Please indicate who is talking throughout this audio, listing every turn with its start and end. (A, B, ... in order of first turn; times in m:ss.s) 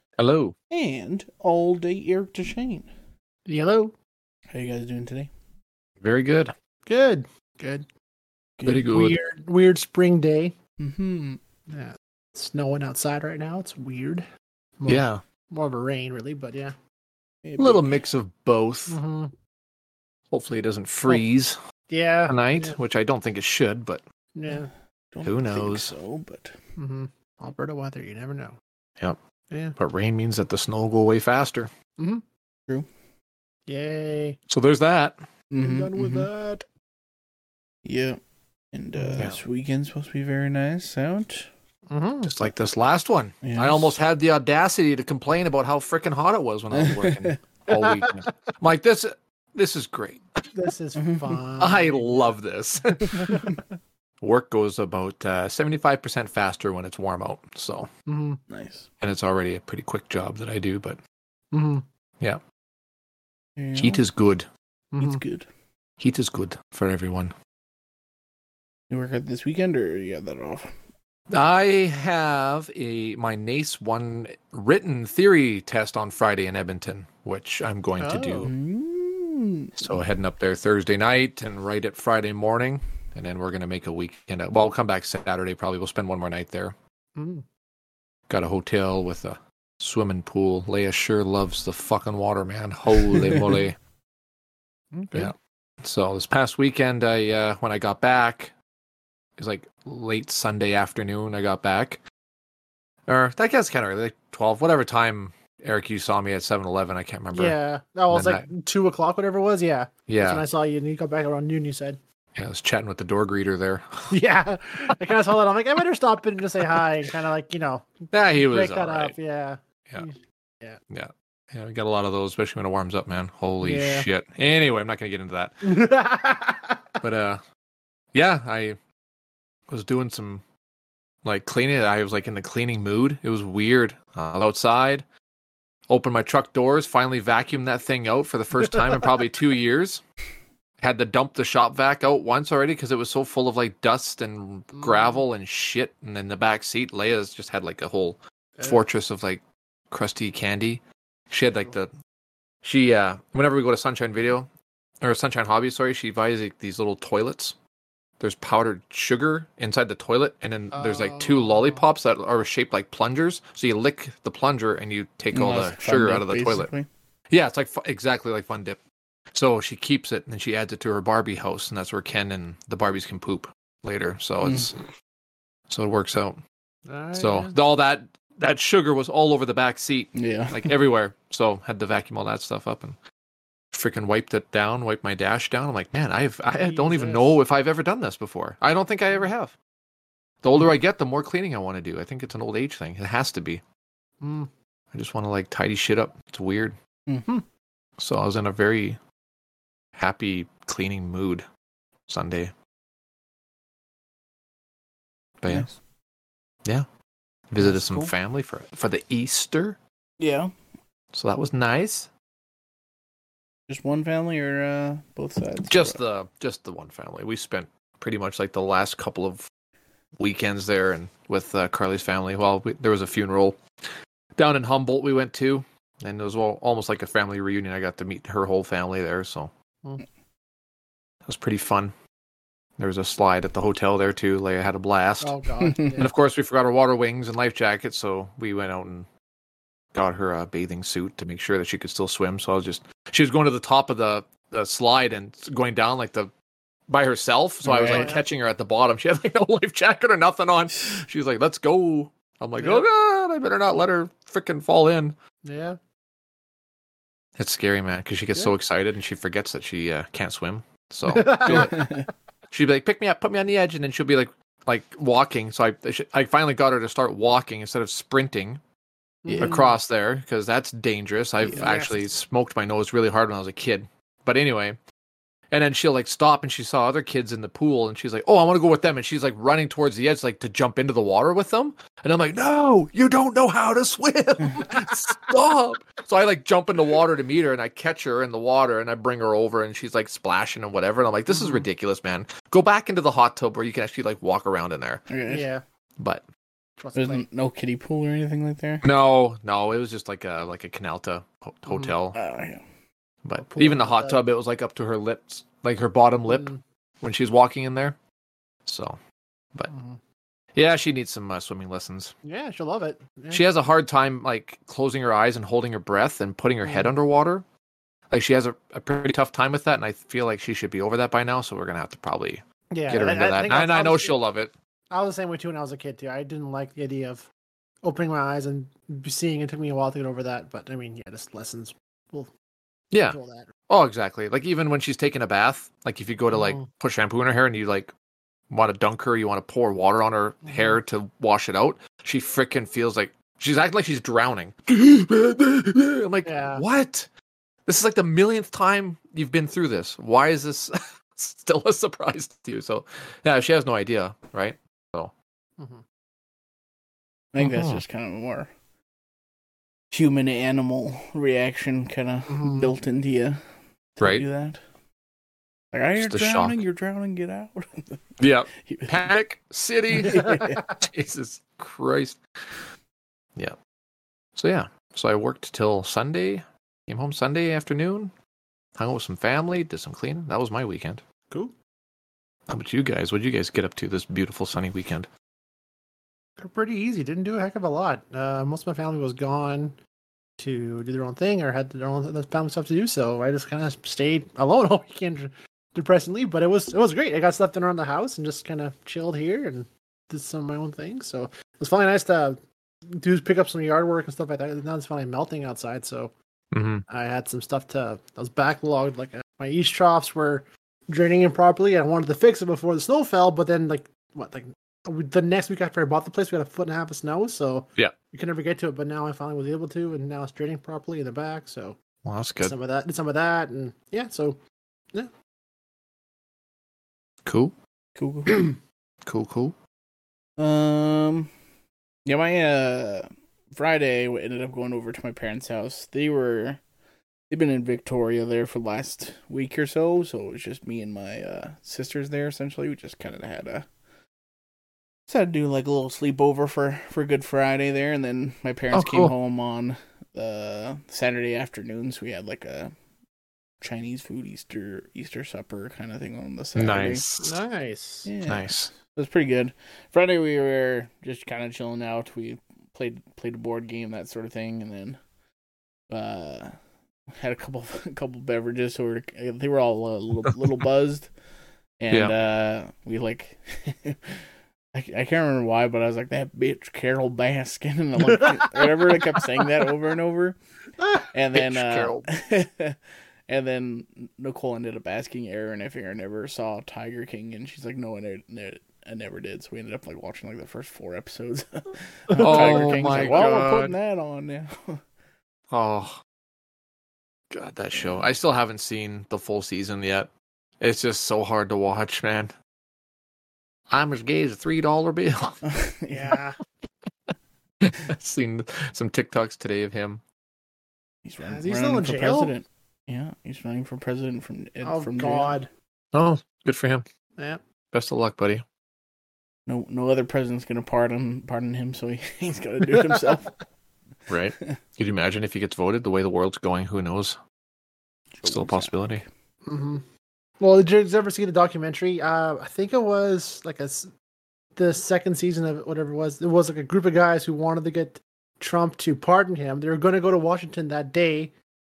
0:00.2-0:00.5 A
0:00.7-0:02.9 B
0:03.4-0:03.9 C
0:04.5-0:05.3 B
0:06.0-0:06.5 A
0:06.8-0:07.9 C
0:08.6-0:08.9 B
0:08.6-0:09.2 A
0:08.9-0:10.6 C
0:10.8-0:11.4 B
0:11.7-0:14.3 C
0:14.8-0:16.7 C
0:14.9-0:15.2 A
0:17.4-0:18.0 B
0:17.6-0:19.0 A
0:18.9-0:19.3 C
0:20.3-0:21.6 A
0:21.9-0:22.8 C
0:22.3-0:24.0 A
0:24.3-0:24.7 C
0:24.5-0:26.5 B
0:25.2-0:25.9 A
0:26.8-0:28.6 C
0:29.5-0:29.8 C
0:29.8-0:31.7 A
0:32.0-0:32.2 C
0:33.7-0:34.4 C
0:34.5-0:35.2 A
0:35.5-0:36.3 B
0:35.6-0:36.6 C
0:37.8-0:38.2 B
0:38.7-0:41.5 B
0:39.0-0:39.3 C
0:41.9-0:42.4 C
0:42.2-0:50.2 A
0:43.4-0:43.9 B
0:46.7-0:47.4 B
0:47.7-0:48.3 C
0:50.5-0:52.4 C
0:51.0-0:51.4 B
0:51.6-0:53.4 A
0:52.9-0:53.6 C
0:53.2-0:53.6 B
0:54.2-0:57.9 A
0:58.1-0:58.4 C
0:58.5-0:58.9 B
0:59.0-1:01.0 A
1:01.5-1:01.8 C
1:03.6-1:04.0 B
1:03.8-1:04.5 A
1:04.9-1:05.2 C
1:05.0-1:05.5 B
1:06.0-1:07.3 A
1:08.9-1:10.7 B
1:11.3-1:18.5 A
1:18.0-1:18.5 C
1:18.4-1:20.0 B
1:19.8-1:26.7 A
1:27.2-1:27.4 C
1:28.3-1:33.8 A
1:33.1-1:33.5 B
1:34.9-1:35.3 C
1:35.1-1:38.5 A
1:39.4-1:42.0 A
1:43.1-1:47.6 A
1:47.3-1:52.0 C
1:48.1-1:48.4 A
1:50.1-1:50.4 A
1:52.3-1:54.1 A
1:54.1-2:00.8 C
1:58.1-1:59.1 A
2:00.9-2:05.6 A
2:03.6-2:04.1 C
2:05.6-2:06.8 C
2:07.0-2:07.4 A
2:08.1-2:08.8 A
2:09.7-2:10.4 A
2:11.2-2:15.0 A
2:15.9-2:20.0 A
2:18.7-2:19.0 C
2:20.8-2:31.9 A
2:24.7-2:25.2 C
2:32.6-2:34.5 A
2:35.0-2:37.6 A
2:38.2-2:46.7 A
2:40.7-2:41.8 C
2:45.3-2:46.9 B
2:47.3-2:48.8 A
2:49.3-2:54.8 A
2:54.4-2:54.7 B
2:55.7-2:56.4 A
2:56.9-2:57.6 C
2:57.1-3:03.0 A
3:00.1-3:00.7 B
3:03.7-3:09.5 A
3:06.5-3:07.3 C
3:10.4-3:13.6 A
3:14.2-3:14.5 C
3:14.9-3:16.8 A
3:18.0-3:19.0 A
3:20.0-3:21.4 A
3:22.1-3:22.5 A
3:25.4-3:25.7 A
3:25.5-3:25.8 B
3:27.5-3:29.8 A
3:27.6-3:28.1 B
3:30.2-3:30.5 B
3:31.1-3:32.1 A
3:33.7-3:36.0 B
3:35.7-3:39.5 A
3:40.2-3:43.6 A
3:44.4-3:49.5 A
3:51.2-3:51.9 A
3:52.8-3:55.3 A
3:55.2-3:56.1 C
3:55.6-3:56.0 B
3:56.0-3:59.1 A
3:59.9-4:06.3 A
4:06.9-4:15.2 A
4:07.6-4:08.1 B
4:07.9-4:08.2 C
4:10.7-4:11.0 B
4:12.6-4:12.8 C
4:15.4-4:15.8 C
4:17.4-4:21.8 A
4:21.1-4:21.9 C
4:21.4-4:22.1 B
4:22.5-4:28.6 A
4:29.2-4:29.7 C
4:29.3-4:29.6 B
4:29.4-4:34.8 A
4:31.4-4:31.7 B
4:31.5-4:32.0 C
4:35.5-4:55.0 A
4:44.4-4:44.6 B
4:44.7-4:45.0 C
4:51.3-4:51.7 C
4:55.1-4:55.4 B
4:55.3-4:55.6 C
4:56.0-4:56.2 A
4:56.8-4:57.2 C
4:56.9-4:58.8 B
4:58.8-5:02.2 A
5:01.7-5:01.9 C
5:02.1-5:02.6 B
5:03.2-5:08.0 A
5:03.4-5:04.2 C
5:06.3-5:06.6 C
5:08.6-5:09.0 A
5:09.7-5:10.0 C
5:10.5-5:12.1 A
5:12.2-5:13.4 C
5:13.3-5:17.4 A
5:16.6-5:16.9 C
5:18.1-5:24.5 A
5:22.7-5:24.2 C
5:24.9-5:27.3 C
5:27.8-5:32.3 C
5:32.9-5:37.9 A
5:33.1-5:33.5 C
5:36.3-5:36.7 C
5:38.5-5:47.1 A
5:40.4-5:40.8 C
5:46.2-5:46.6 C
5:47.6-5:55.1 A
5:55.6-5:55.8 C
5:57.3-5:58.5 B
5:57.4-5:57.8 A
5:59.9-6:03.4 B
6:02.3-6:02.7 C
6:04.0-6:04.6 B
6:04.0-6:04.2 A
6:05.7-6:09.1 B
6:06.0-6:06.6 A
6:08.2-6:10.3 A
6:09.9-6:10.6 B
6:10.1-6:10.8 C
6:10.8-6:12.6 A
6:14.4-6:18.1 A
6:18.8-6:21.0 A
6:21.3-6:21.5 C
6:22.5-6:25.1 A
6:26.4-6:29.8 C
6:30.4-6:42.4 C
6:43.0-6:46.1 C
6:46.5-6:46.8 A
6:46.9-7:01.8 C
7:02.0-7:02.5 A
7:02.4-7:04.4 C
7:07.2-7:07.5 A
7:08.0-7:08.4 B
7:09.0-7:09.6 A
7:10.4-7:11.3 B
7:12.0-7:16.6 B
7:17.3-7:23.7 B
7:25.1-7:32.7 B
7:28.7-7:29.1 A
7:33.6-7:37.0 B
7:36.6-7:37.3 A
7:37.2-7:38.1 C
7:38.0-7:45.0 B
7:38.2-7:38.7 A
7:45.9-7:46.5 B
7:47.2-7:51.1 B
7:51.8-7:54.2 B
7:54.7-8:00.4 B
7:58.0-7:59.0 C
8:00.8-8:01.0 C
8:01.1-8:02.8 B
8:01.3-8:02.0 A
8:03.3-8:14.8 B
8:12.1-8:13.0 C
8:12.2-8:13.7 A
8:15.5-8:16.0 A
8:17.3-8:22.3 A
8:23.7-8:25.4 A
8:25.4-8:26.2 B
8:25.9-8:26.4 C
8:27.6-8:30.0 A
8:31.0-8:35.4 B
8:31.2-8:32.3 C
8:34.6-8:35.5 C
8:35.9-8:36.8 A
8:37.7-8:38.4 A
8:39.5-8:43.4 B
8:42.7-8:43.0 C
8:44.1-8:47.2 A
8:48.1-8:48.8 B
8:48.2-8:49.0 A
8:49.4-8:49.8 C
8:50.4-8:53.9 C
8:54.6-9:01.3 C